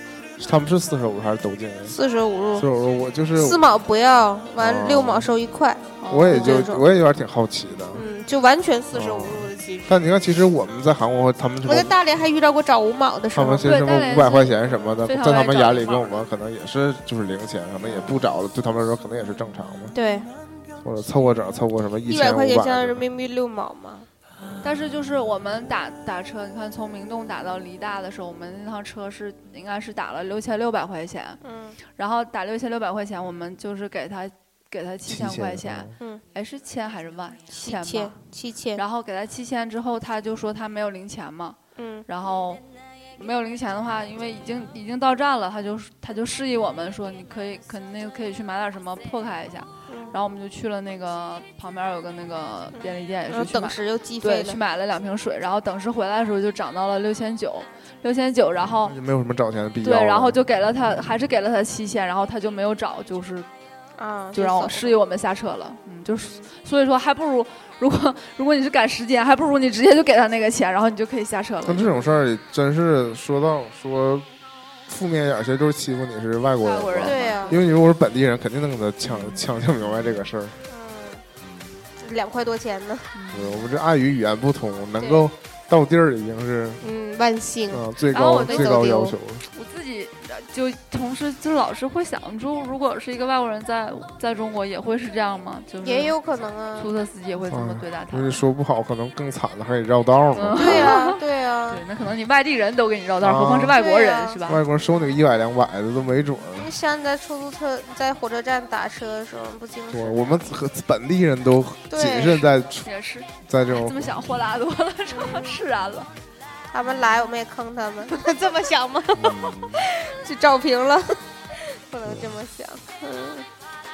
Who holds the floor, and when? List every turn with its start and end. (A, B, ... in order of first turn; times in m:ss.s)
0:00.4-0:02.0 A
0:01.9-0:02.7 B
0:02.6-0:03.6 A
0:03.4-0:06.9 B
0:04.6-0:05.3 A
0:06.0-0:06.7 C
0:06.1-0:08.0 A
0:07.9-0:10.0 B
0:08.9-0:11.9 A
0:11.6-0:13.7 B
0:13.3-0:20.0 A
0:13.6-0:16.3 C
0:17.8-0:18.2 B
0:19.9-0:20.3 B
0:20.8-0:23.1 A
0:22.1-0:24.1 B
0:24.6-0:31.4 C
0:31.4-0:31.8 B
0:32.0-0:38.1 C
0:35.1-0:36.0 A
0:37.5-0:38.8 B
0:38.8-0:42.6 C
0:41.8-0:42.1 B
0:43.2-0:59.0 C
0:49.9-0:50.2 B
0:52.8-0:54.6 B
0:58.8-1:00.4 A
0:59.8-1:03.5 C
1:04.0-1:05.0 B
1:04.3-1:12.0 C
1:11.6-1:14.3 A
1:14.9-1:20.6 A
1:16.6-1:17.6 C
1:17.0-1:17.6 B
1:19.1-1:20.2 C
1:20.7-1:21.2 B
1:21.4-1:21.8 A
1:22.0-1:23.1 B
1:23.1-1:23.7 C
1:23.3-1:26.9 A
1:25.0-1:25.3 B
1:26.8-1:29.2 B
1:27.7-1:29.5 A
1:28.1-1:28.7 C
1:29.5-1:36.2 C
1:35.8-1:36.9 B
1:36.8-1:38.4 C
1:37.5-1:41.0 A
1:40.4-1:41.2 C
1:40.6-1:41.8 B
1:41.7-1:44.6 C
1:43.2-1:43.8 A
1:43.7-1:44.4 B
1:44.4-1:46.7 A
1:46.6-1:50.4 B
1:49.9-1:52.9 A
1:51.9-1:52.5 B
1:52.8-1:56.1 C
1:53.4-1:54.2 A
1:55.1-1:55.5 B
1:56.7-2:03.5 B
1:56.9-1:57.1 C
1:59.1-1:59.8 A
2:02.1-2:02.4 A